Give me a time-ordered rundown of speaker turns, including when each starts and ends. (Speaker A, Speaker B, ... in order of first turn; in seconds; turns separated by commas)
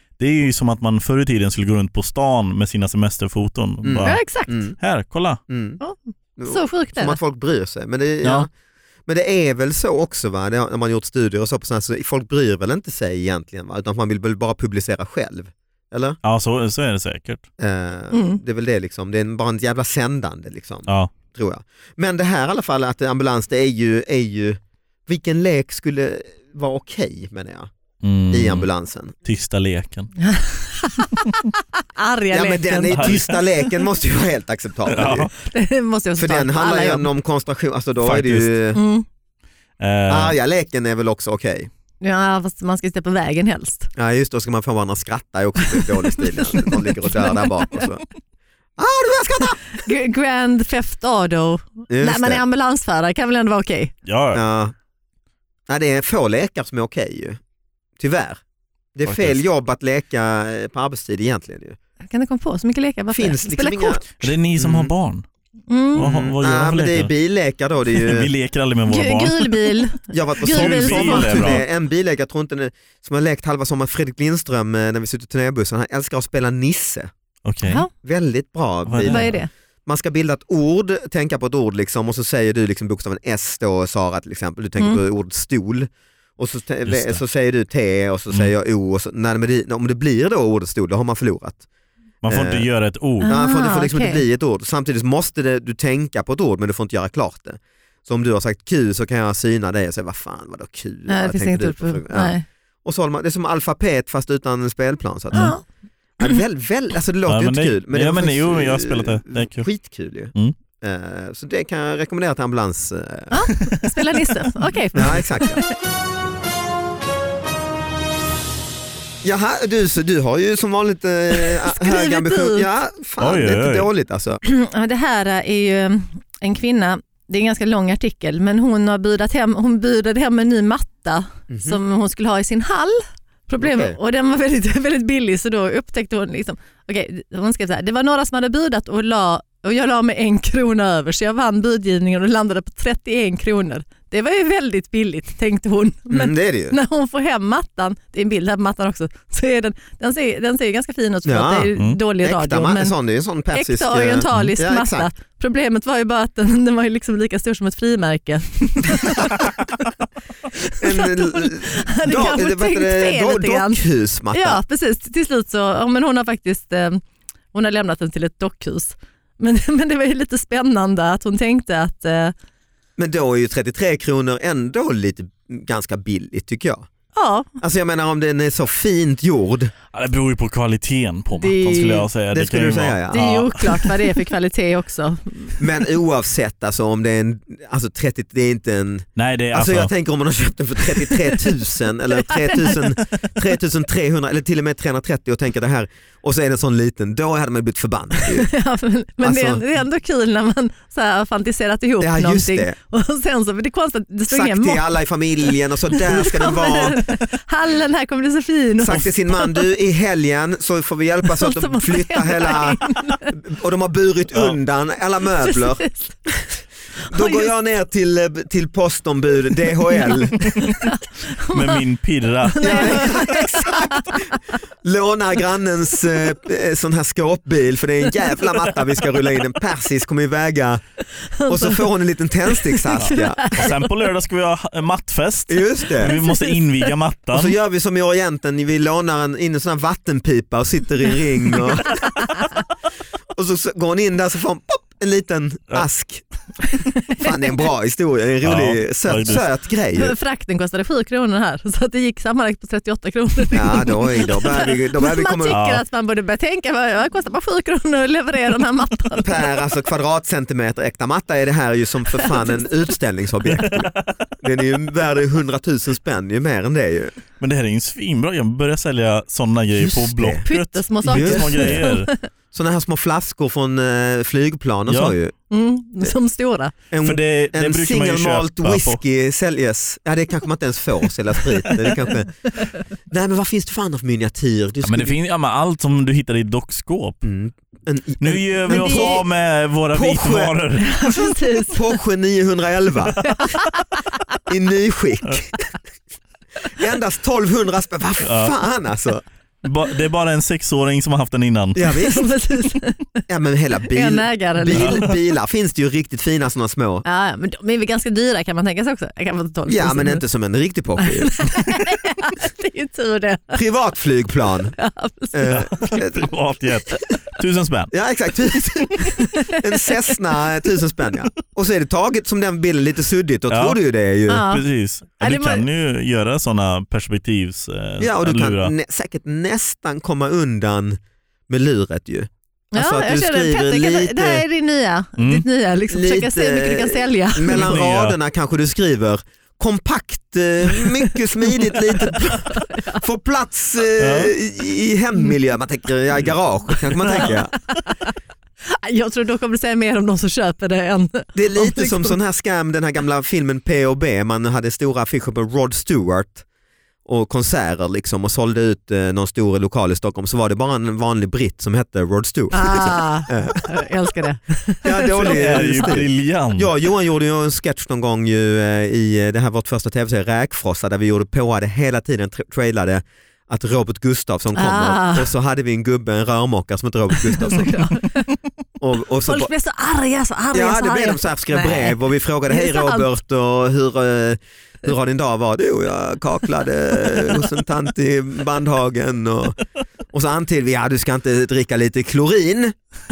Speaker A: 0.2-5.4, Speaker B: 3.8-4.8, Speaker C: 4.0-4.6, Speaker B: 5.5-5.8, Speaker C: 5.8-7.2, Speaker B: 6.4-8.5, Speaker A: 8.2-8.5, Speaker B: 9.1-16.2, Speaker A: 16.2-17.4, Speaker B: 17.6-27.7, Speaker C: 18.1-18.4, Speaker A: 28.0-28.7, Speaker B: 28.3-29.1, Speaker A: 29.2-30.1, Speaker C: 30.2-33.4, Speaker B: 32.3-35.3, Speaker A: 32.9-33.4, Speaker A: 34.9-35.3, Speaker C: 35.4-37.1, Speaker B: 36.2-38.8, Speaker A: 38.0-38.5, Speaker C: 38.8-39.0, Speaker A: 39.8-40.4, Speaker B: 40.1-41.7, Speaker C: 42.0-43.9, Speaker B: 44.0-48.0, Speaker C: 45.8-47.8, Speaker B: 48.8-49.6, Speaker C: 49.7-53.9, Speaker B: 51.9-52.4, Speaker A: 54.0-54.4, Speaker B: 54.3-54.7, Speaker B: 55.7-57.4, Speaker B: 58.0-58.4, Speaker B: 59.0-61.8, Speaker A: 59.0-59.4, Speaker C: 62.1-64.0, Speaker B: 63.1-64.9, Speaker A: 64.2-65.2, Speaker C: 65.7-66.1, Speaker A: 65.9-67.1, Speaker B: 66.0-68.3, Speaker A: 67.9-69.7, Speaker C: 68.9-71.6, Speaker B: 70.1-77.1, Speaker A: 70.5-71.6, Speaker A: 77.5-77.8, Speaker B: 77.9-91.6, Speaker A: 78.9-79.4, Speaker C: 79.0-79.5, Speaker A: 86.9-87.2, Speaker A: 92.2-93.3, Speaker B: 92.3-92.7, Speaker C: 93.2-94.2, Speaker B: 93.3-105.6, Speaker C: 101.1-102.5, Speaker C: 105.3-105.6, Speaker B: 106.2-113.5, Speaker A: 107.3-109.7, Speaker C: 113.3-115.7, Speaker A: 113.6-113.9, Speaker B: 114.9-115.6, Speaker B: 119.2-124.4, Speaker C: 121.3-122.7, Speaker A: 123.2-123.9, Speaker C: 124.4-152.9, Speaker B: 131.5-131.8, Speaker B: 133.6-134.0, Speaker B: 146.1-146.8, Speaker B: 151.2-155.1, Speaker C: 153.5-159.5, Speaker C: 160.6-172.3, Speaker B: 160.8-164.6, Speaker B: 173.0-176.9, Speaker C: 177.2-177.5, Speaker B: 177.6-179.7, Speaker A: 179.9-184.0, Speaker C: 181.3-182.1, Speaker B: 182.3-183.4, Speaker C: 183.1-185.6, Speaker B: 185.6-198.5, Speaker A: 189.2-189.9, Speaker C: 192.1-193.0, Speaker C: 198.4-204.8, Speaker B: 199.2-199.6, Speaker B: 202.0-202.8, Speaker B: 204.3-207.0, Speaker C: 205.9-209.6, Speaker B: 208.8-215.8, Speaker C: 211.3-213.3, Speaker C: 215.4-216.5, Speaker C: 217.1-217.5, Speaker B: 217.1-220.7, Speaker C: 220.1-221.8, Speaker A: 221.5-223.1, Speaker C: 222.5-224.4, Speaker B: 222.6-230.8, Speaker C: 231.2-231.9, Speaker B: 231.5-233.7, Speaker C: 232.5-233.9, Speaker A: 233.0-237.6, Speaker B: 235.5-236.2, Speaker C: 236.0-236.9, Speaker B: 237.3-242.1, Speaker B: 243.3-246.2, Speaker B: 247.2-250.2, Speaker A: 248.4-249.4, Speaker C: 249.9-259.5, Speaker B: 253.5-255.6, Speaker A: 255.5-255.8, Speaker B: 259.2-267.2, Speaker C: 262.2-262.5, Speaker A: 263.6-264.1, Speaker A: 267.4-272.1, Speaker B: 269.8-270.4, Speaker C: 270.4-272.2, Speaker B: 271.0-271.9, Speaker B: 272.5-275.4, Speaker A: 274.9-275.2, Speaker C: 275.5-276.7, Speaker B: 276.9-285.2, Speaker A: 277.0-279.0, Speaker A: 284.8-287.2, Speaker B: 287.2-289.2, Speaker A: 288.2-291.0, Speaker C: 288.7-289.2, Speaker B: 289.9-290.6, Speaker C: 290.8-291.9, Speaker B: 291.6-293.3, Speaker C: 293.2-294.4, Speaker B: 294.5-295.6, Speaker B: 296.7-299.2, Speaker A: 298.2-298.5, Speaker A: 299.6-302.0, Speaker B: 301.8-302.3, Speaker C: 302.1-303.2, Speaker B: 303.3-307.1, Speaker C: 303.9-305.1, Speaker A: 304.7-305.1, Speaker C: 307.1-310.2, Speaker B: 309.7-311.6, Speaker C: 311.0-313.6, Speaker B: 313.5-314.8, Speaker C: 314.8-315.6, Speaker B: 315.3-316.3, Speaker A: 315.5-317.9, Speaker B: 317.9-324.5, Speaker C: 319.1-319.9, Speaker A: 323.5-323.8, Speaker C: 324.3-324.6, Speaker A: 324.4-328.7, Speaker C: 325.2-325.6, Speaker B: 328.0-334.4, Speaker C: 332.7-337.7, Speaker A: 335.2-335.4, Speaker B: 335.9-347.5, Speaker A: 337.6-338.2, Speaker C: 342.5-343.0, Speaker A: 344.0-344.3, Speaker A: 347.0-347.3, Speaker C: 347.1-348.1, Speaker C: 348.7-352.2, Speaker B: 351.4-356.4, Speaker B: 357.1-363.8, Speaker C: 362.5-366.0, Speaker B: 364.8-377.9, Speaker A: 365.2-366.7, Speaker C: 374.6-375.3, Speaker C: 377.3-378.3, Speaker B: 378.8-379.5, Speaker C: 379.2-383.1, Speaker B: 380.5-392.8